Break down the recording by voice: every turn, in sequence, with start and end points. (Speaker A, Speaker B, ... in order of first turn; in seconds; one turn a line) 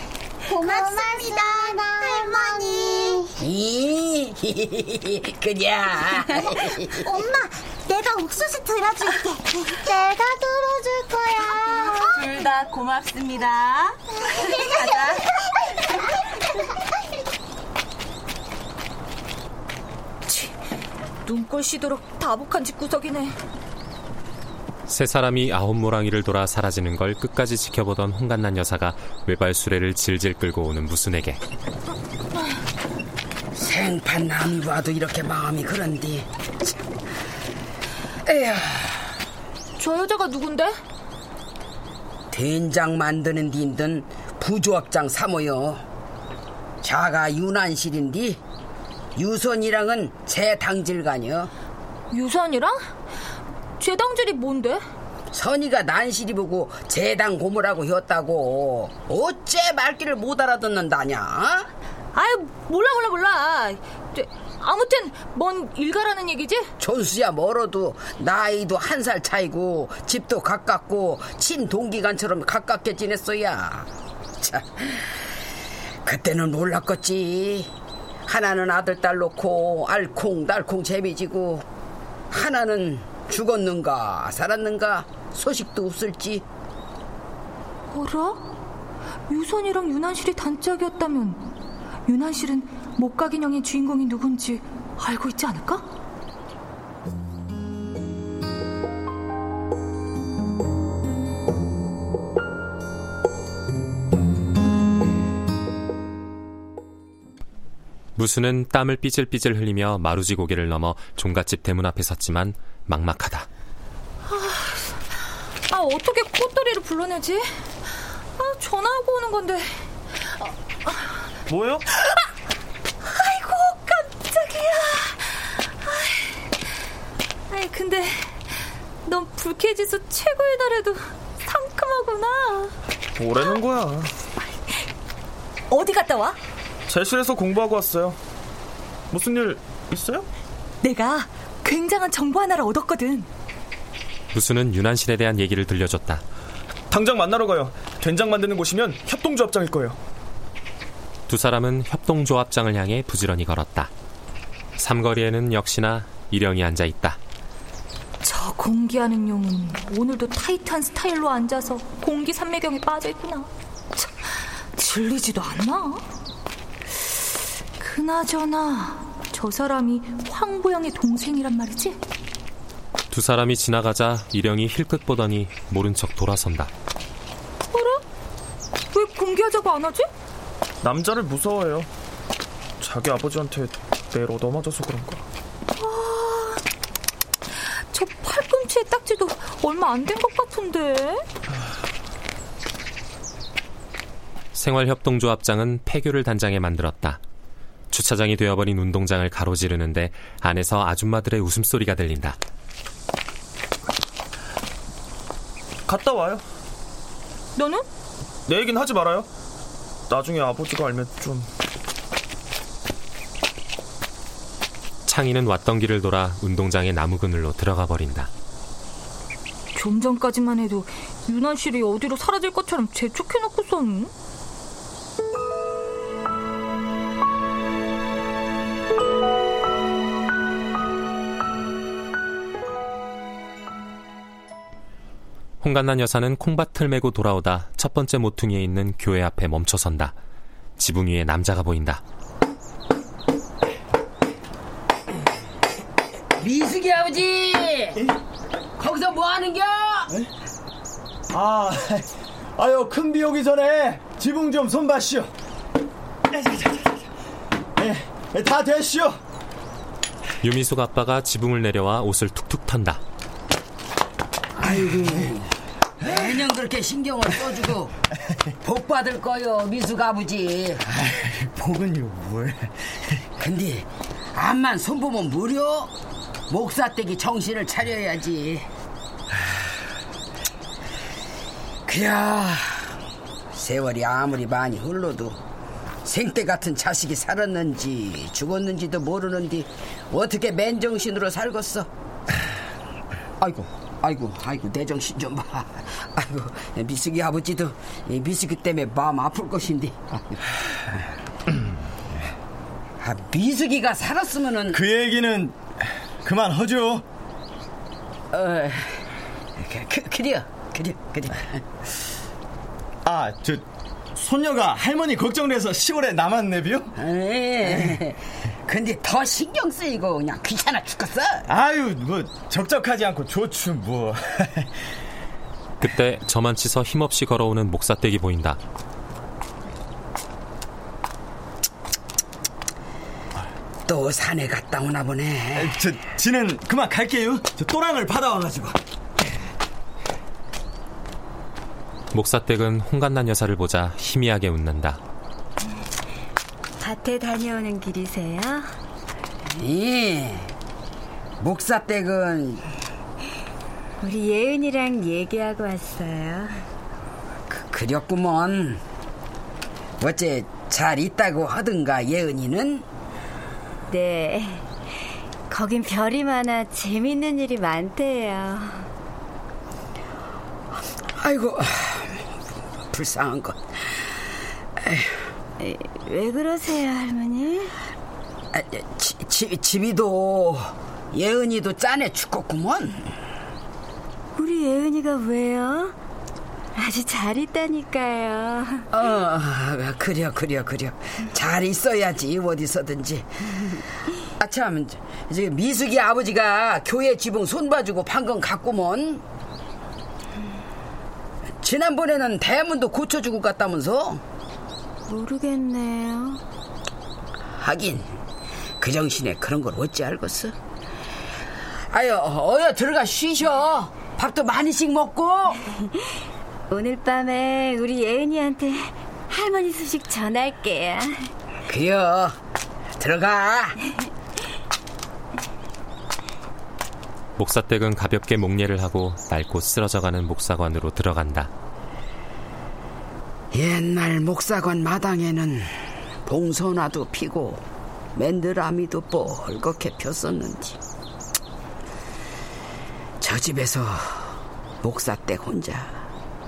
Speaker A: 0.5-3.3
Speaker B: 3.4-7.1
Speaker A: 7.0-12.3
Speaker C: 12.6-13.8
Speaker A: 14.4-15.2
Speaker D: 20.3-20.6
Speaker D: 21.2-23.3
Speaker E: 24.9-31.4
Speaker B: 33.5-36.7
Speaker B: 38.2-39.0
Speaker D: 39.8-40.7
Speaker B: 42.3-45.8
Speaker B: 46.8-48.4
Speaker B: 49.1-51.5
Speaker D: 52.1-52.8
Speaker D: 53.8-54.8
Speaker B: 55.3-61.7
Speaker D: 62.1-66.7
Speaker B: 66.8-73.9
Speaker B: 74.4-75.1
Speaker B: 76.0-77.7
Speaker B: 78.2-81.6
Speaker B: 82.3-86.4
Speaker D: 87.9-88.5
Speaker D: 89.3-91.5
Speaker D: 92.0-95.9
Speaker E: 108.2-113.5
Speaker D: 114.2-115.2
Speaker D: 115.7-117.6
Speaker D: 118.3-119.8
Speaker D: 120.4-121.2
Speaker C: 121.5-121.8
Speaker D: 123.1-126.5
Speaker D: 127.5-132.7
Speaker C: 133.2-134.1
Speaker D: 135.7-136.4
Speaker C: 136.9-138.2
Speaker C: 139.1-140.2
Speaker D: 140.8-143.3
Speaker E: 144.3-146.2
Speaker C: 146.9-150.0
Speaker E: 151.3-153.9
Speaker E: 154.8-157.2
Speaker D: 158.2-164.1
Speaker D: 164.8-166.1
Speaker D: 167.8-172.0
Speaker E: 173.1-176.7
Speaker D: 177.7-178.0
Speaker D: 178.9-180.1
Speaker C: 180.8-181.9
Speaker C: 182.8-185.2
Speaker D: 185.8-186.6
Speaker D: 187.9-191.2
Speaker E: 194.5-197.2
Speaker E: 197.9-202.4
Speaker C: 205.9-206.4
Speaker D: 207.6-207.8
Speaker C: 208.5-209.3
Speaker C: 210.1-211.5
Speaker E: 215.1-218.3
Speaker D: 219.7-224.1
Speaker E: 235.6-240.1
Speaker E: 240.8-242.0
Speaker B: 246.4-248.0
Speaker B: 248.8-250.1
Speaker F: 251.3-255.3
Speaker F: 257.8-259.2
Speaker E: 260.4-263.0
Speaker B: 264.6-265.5
Speaker B: 266.0-267.9
Speaker B: 268.6-270.8
Speaker F: 271.1-272.7
Speaker B: 273.4-275.9
Speaker B: 276.5-278.7
Speaker B: 281.9-282.9
Speaker B: 283.5-285.4
Speaker B: 286.0-291.9
Speaker B: 293.4-300.4
Speaker B: 303.0-304.8
Speaker F: 304.7-305.6
Speaker F: 306.2-307.0
Speaker B: 308.3-309.0
Speaker B: 309.6-311.6
Speaker F: 313.1-313.6
Speaker F: 314.1-316.9
Speaker B: 316.9-321.4
Speaker F: 321.5-324.6
Speaker E: 325.8-328.6
Speaker B: 333.9-335.8
Speaker F: 335.5-338.8
Speaker E: 342.1-345.0
Speaker G: 346.8-348.7
Speaker B: 349.5-350.5
Speaker B: 351.4-352.6
Speaker G: 354.0-356.6
Speaker B: 357.5-358.8
Speaker B: 360.0-362.9
Speaker G: 363.9-364.6
Speaker G: 365.5-368.9
Speaker B: 371.2-372.2
Speaker B: 372.9-373.6
Speaker B: 374.8-375.1
Speaker G: 375.6-377.7
Speaker B: 378.5-383.1
Speaker G: 384.4-385.9
Speaker G: 386.8-388.9
Speaker B: 388.9-393.5
Speaker B: 394.4-399.2
Speaker B: 401.6-404.2
Speaker G: 405.1-406.4
Speaker B: 407.6-408.1
Speaker B: 408.8-410.5
Speaker B: 411.9-415.7
Speaker G: 416.7-421.3
Speaker B: 421.7-422.4
Speaker B: 423.0-423.8
Speaker E: 427.4-431.5
Speaker B: 433.5-437.6
Speaker B: 438.1-440.8
Speaker B: 443.2-445.9